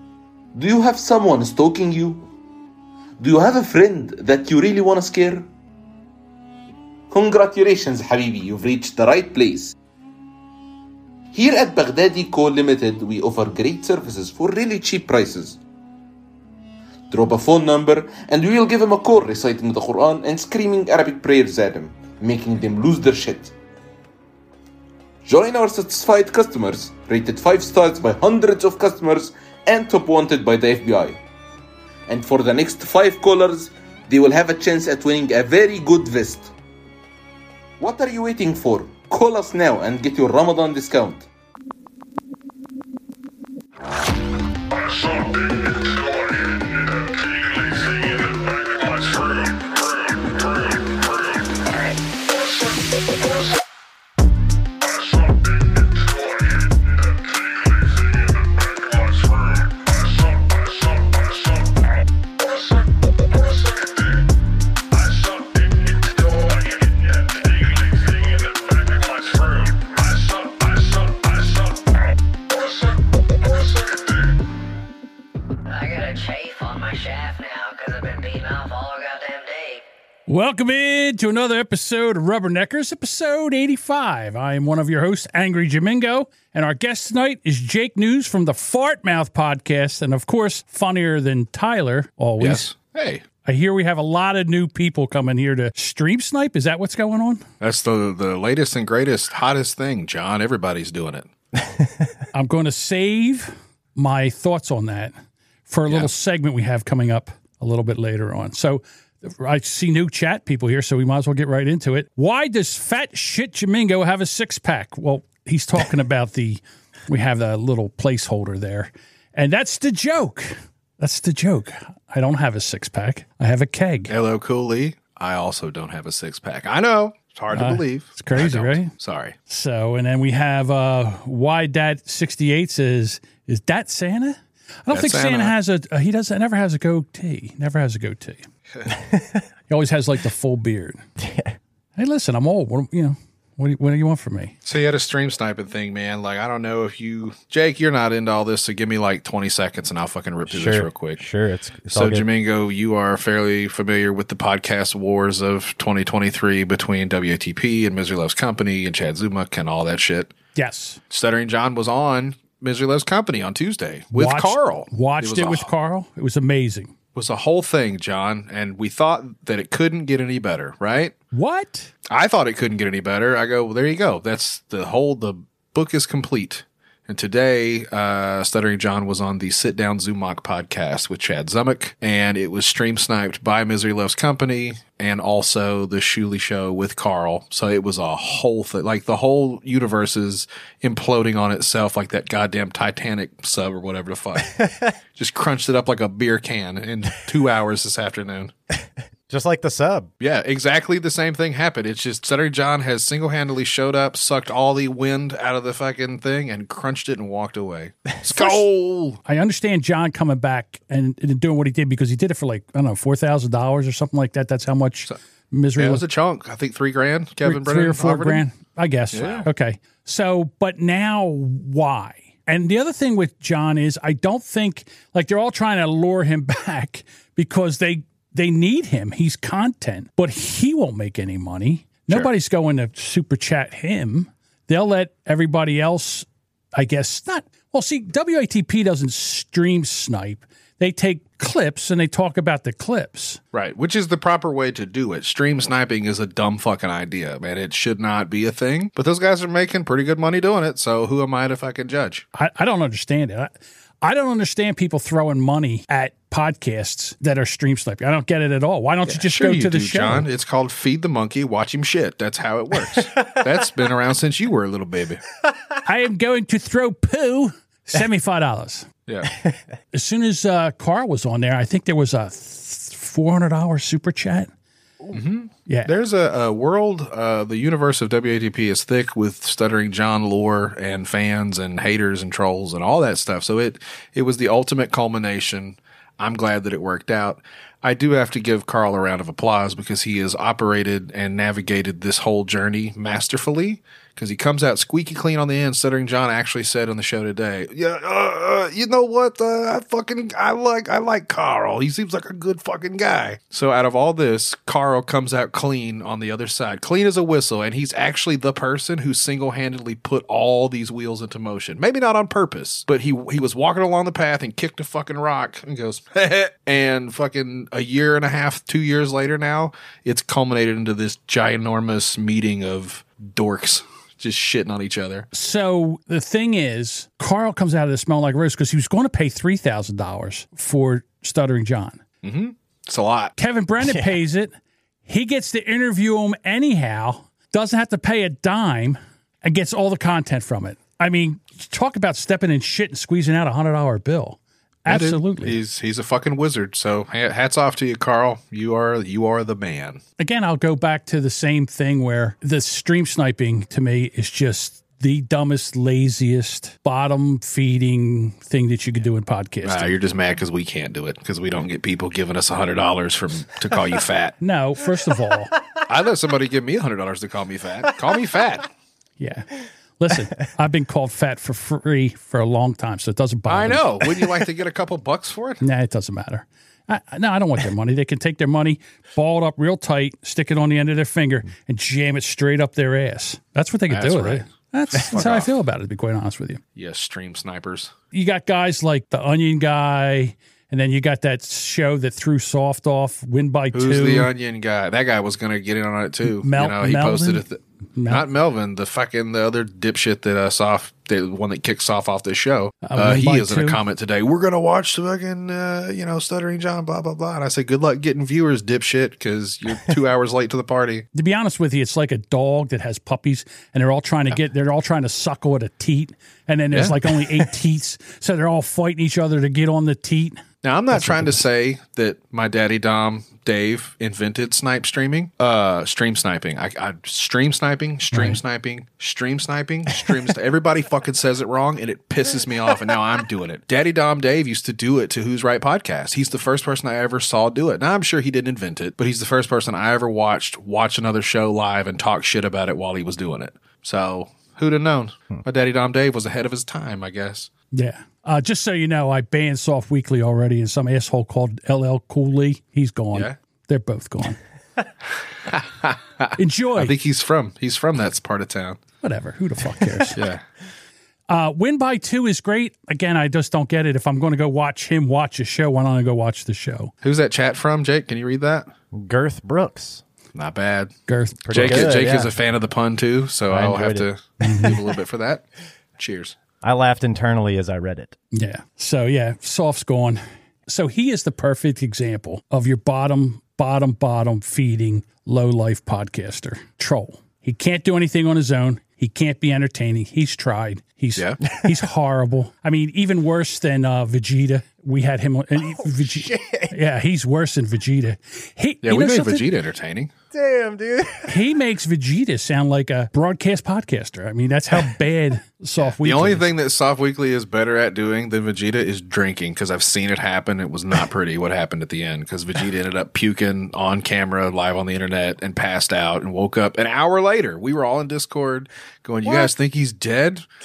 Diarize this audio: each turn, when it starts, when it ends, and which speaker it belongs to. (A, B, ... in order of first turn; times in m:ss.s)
0:00.6-0:02.3 A
0:03.2-0:05.5 A
0:07.1-0:09.7 A
0:11.3-0:15.6 A
0:17.1-0:23.5 A
0:25.2-0:31.2 A
0:32.1-0:36.5 A
0:37.8-0:41.3 A
0:44.7-0:53.6 B
0:54.8-1:04.3 B
1:04.9-1:14.4 B
1:15.7-1:19.8 C
1:20.3-1:32.7 D
1:32.4-1:33.2 E
1:33.4-1:37.4 D
1:37.6-1:41.3 E
1:42.3-1:45.1 D
1:45.7-2:04.1 D
2:04.1-2:09.4 E
2:07.5-2:08.9 D
2:09.5-2:18.4 D
2:14.9-2:15.5 E
2:18.9-2:19.4 F
2:19.7-2:21.0 D
2:21.2-2:21.6 F
2:22.0-2:24.6 D
2:24.6-2:31.2 E
2:30.5-2:32.3 F
2:31.9-2:40.3 E
2:40.6-2:41.0 D
2:41.1-2:45.7 E
2:44.1-2:46.9 D
2:47.2-2:51.1 E
2:51.3-2:51.9 D
2:52.1-3:14.5 E
3:14.4-3:14.9 F
3:15.2-3:18.5 E
3:19.3-3:20.1 F
3:20.2-3:29.2 E
3:28.2-3:28.6 F
3:29.2-3:36.0 D
3:35.8-3:38.4 E
3:37.4-4:03.4 D
3:39.1-3:39.5 E
4:03.5-4:12.2 E
4:12.4-4:20.2 D
4:19.1-4:25.2 E
4:25.8-4:28.9 D
4:29.1-4:29.3 E
4:29.9-4:34.5 D
4:35.1-5:25.3 E
5:25.3-5:32.0 D
5:32.2-5:33.3 E
5:33.4-5:34.5 D
5:33.8-5:34.2 F
5:35.1-5:45.6 D
5:44.9-5:50.0 E
5:50.2-5:59.9 D
5:59.6-6:04.3 E
6:04.4-6:05.5 D
6:05.9-6:08.7 E
6:09.2-6:14.1 D
6:13.5-6:15.6 E
6:15.6-6:26.6 D
6:23.9-6:25.5 E
6:26.8-6:27.9 E
6:28.1-6:34.3 D
6:33.7-6:51.0 E
6:36.4-6:37.4 D
6:38.0-6:38.2 D
6:42.9-6:43.8 D
6:51.1-7:00.4 D
6:56.7-6:57.5 E
7:00.6-7:27.5 E
7:00.9-7:01.4 D
7:08.1-7:08.4 D
7:27.7-7:34.4 D
7:35.5-7:38.8 E
7:36.4-7:37.0 D
7:39.0-7:40.2 D
7:40.2-7:40.4 E
7:41.3-7:46.9 D
7:47.0-7:48.7 E
7:48.9-7:50.0 F
7:50.4-7:50.9 E
7:51.1-7:51.9 D
7:51.4-7:52.3 F
7:51.5-7:55.4 E
7:53.5-7:54.1 F
7:54.4-7:54.8 D
7:56.0-7:56.4 E
7:56.6-7:58.2 F
7:58.3-8:19.5 D
8:15.6-8:16.8 F
8:18.8-8:20.1 E
8:20.3-8:21.4 F
8:21.3-8:26.5 D
8:26.0-8:40.4 E
8:39.2-8:39.5 F